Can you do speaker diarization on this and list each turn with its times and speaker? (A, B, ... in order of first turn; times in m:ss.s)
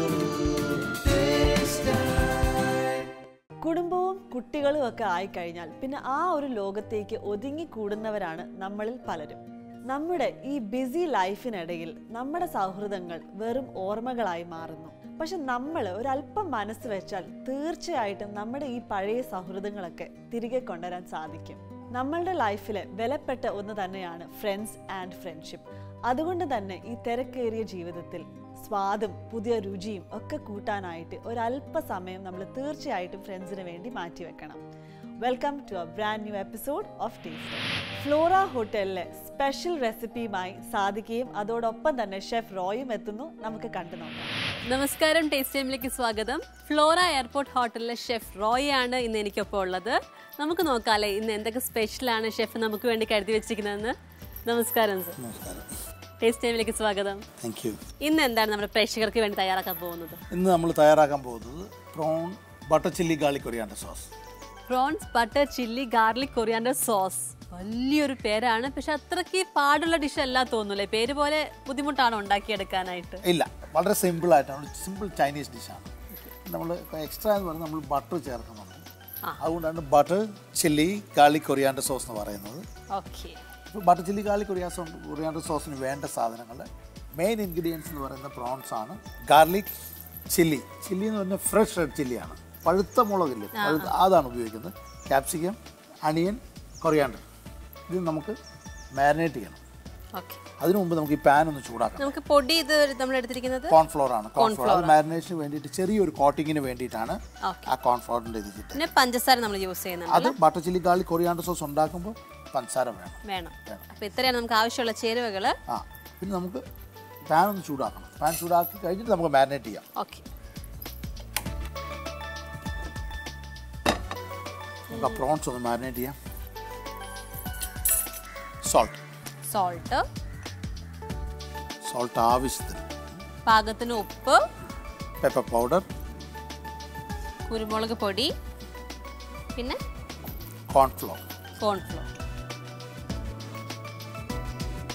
0:03.6-0:34.6 A
0:35.2-0:44.6 A
0:44.6-0:53.9 B
0:54.5-0:55.2 B
0:55.2-0:55.7 C
0:56.2-0:57.2 B
0:57.4-0:57.8 C
0:58.0-1:00.2 B
1:00.3-1:04.1 C
1:04.7-1:13.2 B
1:13.2-1:15.9 C
1:16.4-1:18.8 C
1:19.4-1:22.7 C
1:22.9-1:23.4 B
1:23.7-1:29.7 C
1:30.3-1:37.2 C
1:33.6-1:33.9 B
1:37.9-1:38.4 C
1:39.0-1:39.6 C
1:40.6-1:42.2 C
1:42.0-1:43.8 B
1:43.7-1:48.9 C
1:44.4-1:45.0 B
1:47.4-1:47.7 B
1:48.7-1:50.4 B
1:50.1-1:53.8 C
1:53.2-1:55.6 B
1:55.7-1:56.6 C
1:57.3-1:59.8 C
2:00.0-2:00.2 B
2:04.9-2:06.2 C
2:08.6-2:09.0 C
2:09.5-2:10.0 B
2:11.8-2:12.8 C
2:13.5-2:14.4 B
2:15.2-2:15.8 C
2:17.5-2:18.3 B
2:20.7-2:21.2 C
2:21.6-2:22.1 B